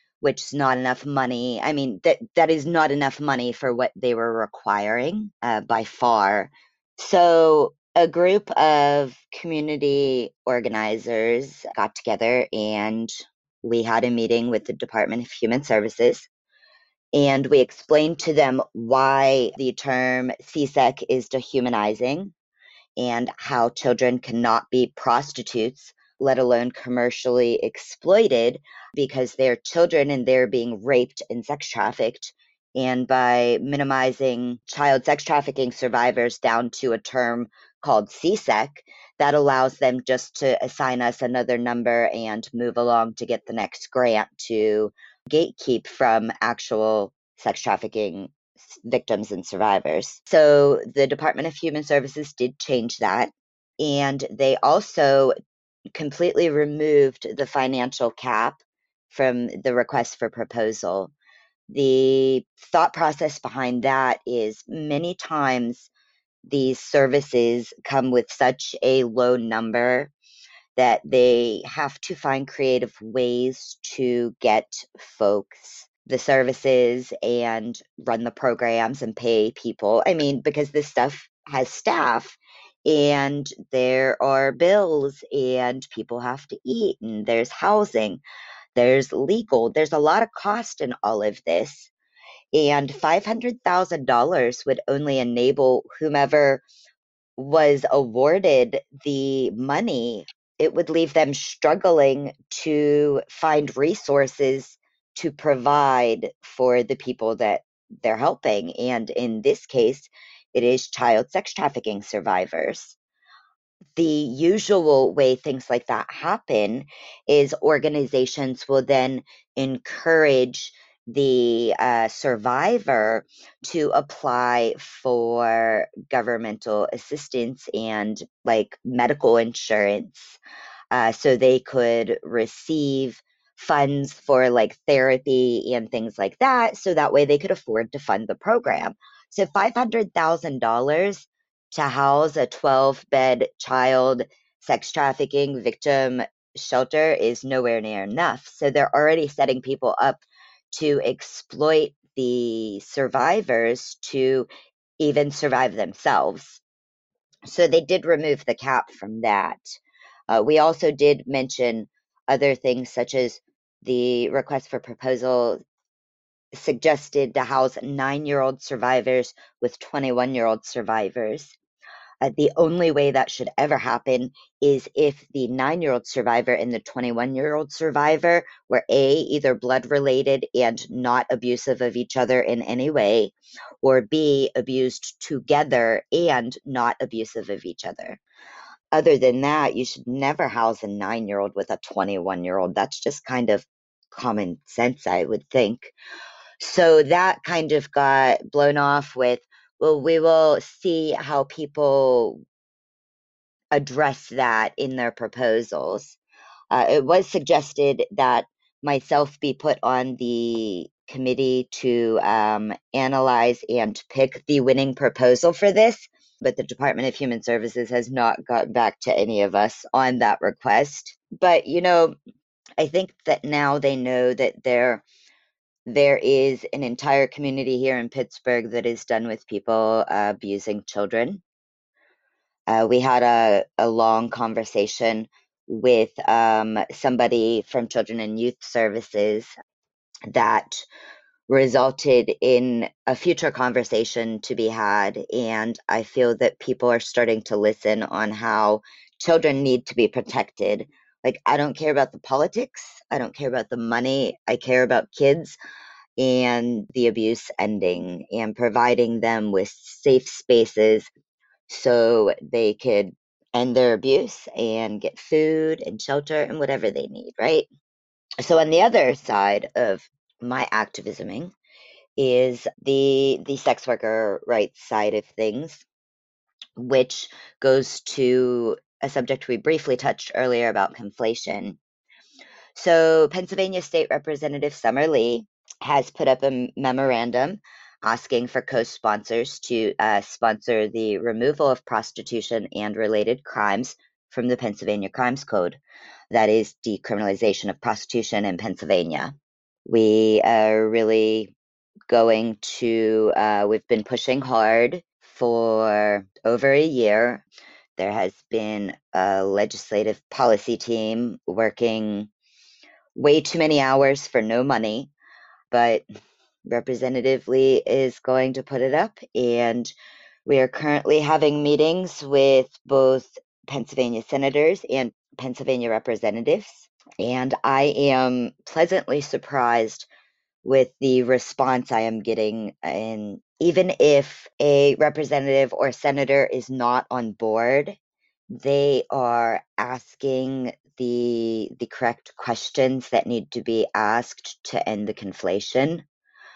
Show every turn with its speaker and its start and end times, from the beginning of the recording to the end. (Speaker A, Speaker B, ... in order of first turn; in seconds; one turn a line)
Speaker A: 0.2-16.3
Speaker A: 17.1-22.3
Speaker A: 23.0-55.3
Speaker A: 55.9-61.1
Speaker A: 61.7-65.9
Speaker A: 66.4-70.1
Speaker A: 70.8-88.2
Speaker A: 88.7-91.9
Speaker A: 92.5-96.6
Speaker A: 97.4-113.0
Speaker A: 114.0-130.4
Speaker A: 130.9-154.5
Speaker A: 155.0-156.6
Speaker A: 157.4-159.8
Speaker A: 160.3-165.6
Speaker A: 166.5-171.6
Speaker A: 172.2-188.2
Speaker A: 188.9-195.9
Speaker A: 196.6-202.4
Speaker A: 203.7-206.2
Speaker A: 206.7-222.1
Speaker A: 222.8-225.0
Speaker A: 225.9-231.4
Speaker A: 232.7-239.5
Speaker A: 240.3-240.8
Speaker A: 241.5-255.6
Speaker A: 256.2-261.1
Speaker A: 261.7-267.6
Speaker A: 268.4-271.5
Speaker A: 272.2-275.8
Speaker A: 276.8-281.8
Speaker A: 282.7-295.8
Speaker A: 296.3-299.3
Speaker A: 299.9-301.5
Speaker A: 302.1-307.4
Speaker A: 308.0-312.3
Speaker A: 313.1-315.1
Speaker A: 315.7-316.0
Speaker A: 316.6-319.9
Speaker A: 320.4-330.1
Speaker A: 330.6-338.0
Speaker A: 338.6-346.0